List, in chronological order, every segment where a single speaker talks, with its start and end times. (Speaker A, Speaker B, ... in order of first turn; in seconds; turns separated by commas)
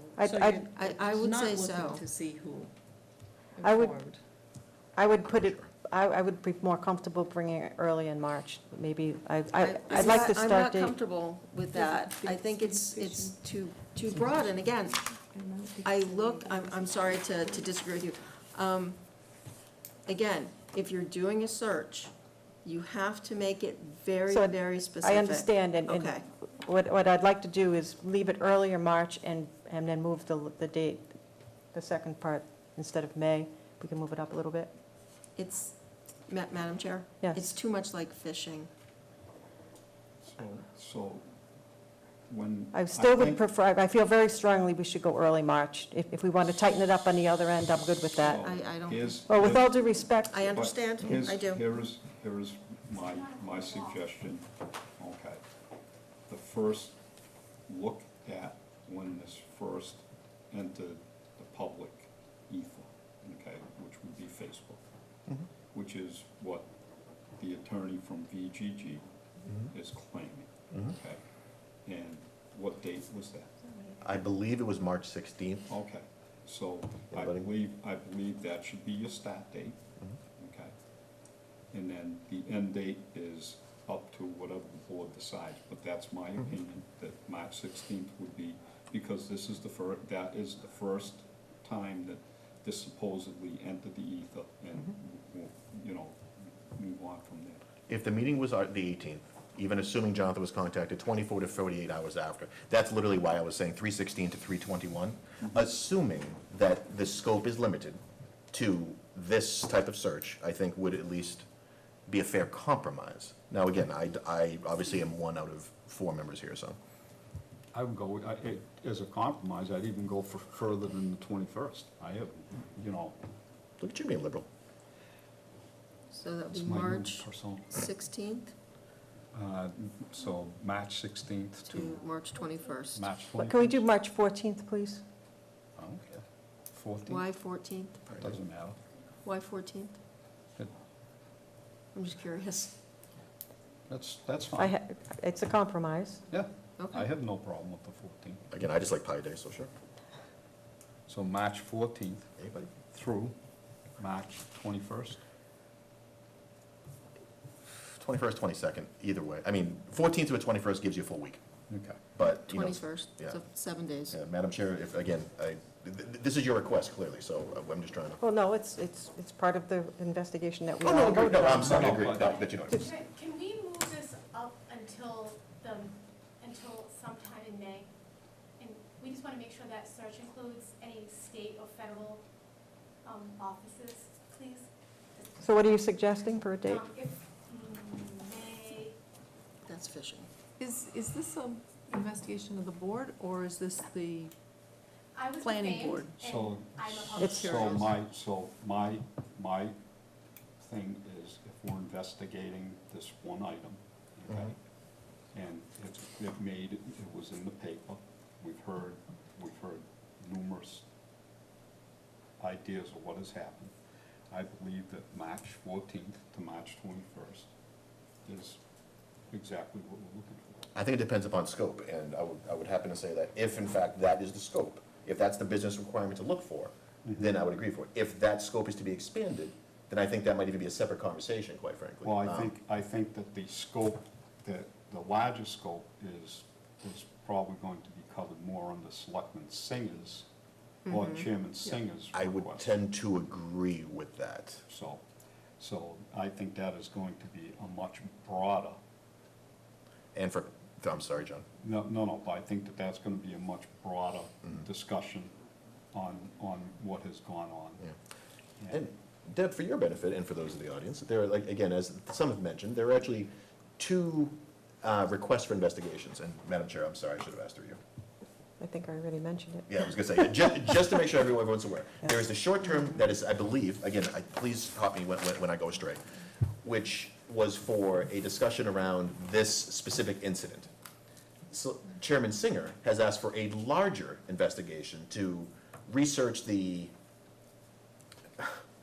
Speaker A: 0.2-0.7, Speaker B: 0.2-2.7, Speaker C: 0.7-2.0, Speaker B: 3.6-4.2, Speaker A: 3.6-4.0, Speaker A: 5.0-11.0, Speaker D: 5.3-5.6, Speaker C: 9.6-15.1, Speaker B: 11.7-13.4, Speaker B: 15.3-17.6, Speaker C: 15.8-19.0, Speaker C: 20.1-22.1, Speaker C: 22.6-26.2, Speaker A: 24.3-31.2, Speaker A: 31.7-34.7, Speaker C: 35.4-38.7, Speaker A: 37.2-37.5, Speaker E: 40.2-41.3, Speaker E: 42.3-43.4, Speaker A: 42.7-48.4, Speaker E: 48.2-55.4, Speaker C: 48.3-49.3, Speaker A: 49.3-50.5, Speaker C: 50.3-51.7, Speaker F: 52.9-54.1, Speaker E: 56.3-57.0, Speaker E: 57.7-64.8, Speaker E: 65.7-66.7, Speaker E: 67.4-69.0, Speaker E: 69.7-71.2, Speaker E: 71.8-73.7, Speaker D: 74.0-75.7, Speaker E: 75.7-79.8, Speaker D: 77.1-77.5, Speaker E: 80.4-80.7, Speaker E: 81.7-97.6, Speaker D: 97.9-108.0, Speaker D: 108.5-111.5, Speaker D: 112.1-116.8, Speaker E: 117.7-123.2, Speaker D: 123.8-124.5, Speaker C: 126.1-128.5, Speaker E: 126.5-127.8, Speaker E: 129.3-132.0, Speaker C: 131.7-133.1, Speaker E: 132.9-133.8, Speaker A: 133.3-135.0, Speaker E: 135.8-137.3, Speaker C: 137.1-138.1, Speaker E: 138.1-138.8, Speaker C: 139.2-140.0, Speaker C: 141.9-142.7, Speaker E: 143.9-144.7, Speaker A: 144.6-146.2, Speaker E: 146.3-148.4, Speaker C: 146.8-147.1, Speaker D: 148.5-149.7, Speaker E: 151.1-153.3, Speaker D: 152.4-152.7, Speaker E: 154.0-155.2, Speaker D: 158.0-161.4, Speaker E: 161.7-162.1, Speaker D: 162.1-163.4, Speaker C: 162.3-164.2, Speaker D: 164.1-168.2, Speaker A: 168.2-172.1, Speaker D: 170.8-172.8, Speaker E: 171.2-172.4, Speaker F: 172.2-177.9, Speaker F: 178.6-182.2, Speaker F: 183.0-185.7, Speaker A: 185.4-186.8, Speaker F: 186.7-189.0, Speaker C: 189.7-190.3, Speaker B: 190.6-194.3, Speaker F: 195.2-198.0, Speaker B: 195.4-196.1, Speaker E: 196.2-199.8, Speaker A: 197.2-197.5, Speaker E: 200.6-204.6, Speaker E: 205.3-210.9, Speaker E: 212.4-213.7, Speaker E: 214.3-217.5, Speaker E: 218.2-218.6, Speaker E: 219.3-220.7, Speaker D: 220.7-232.5, Speaker E: 227.1-227.3, Speaker E: 232.0-240.3, Speaker E: 240.8-242.7, Speaker C: 240.9-241.2, Speaker D: 242.1-244.6, Speaker E: 244.7-245.0, Speaker E: 245.6-248.8, Speaker D: 250.2-251.4, Speaker E: 251.6-255.3, Speaker E: 255.9-257.9, Speaker D: 258.7-267.8, Speaker A: 268.6-269.9, Speaker D: 269.7-276.0, Speaker D: 276.6-280.7, Speaker D: 281.5-286.9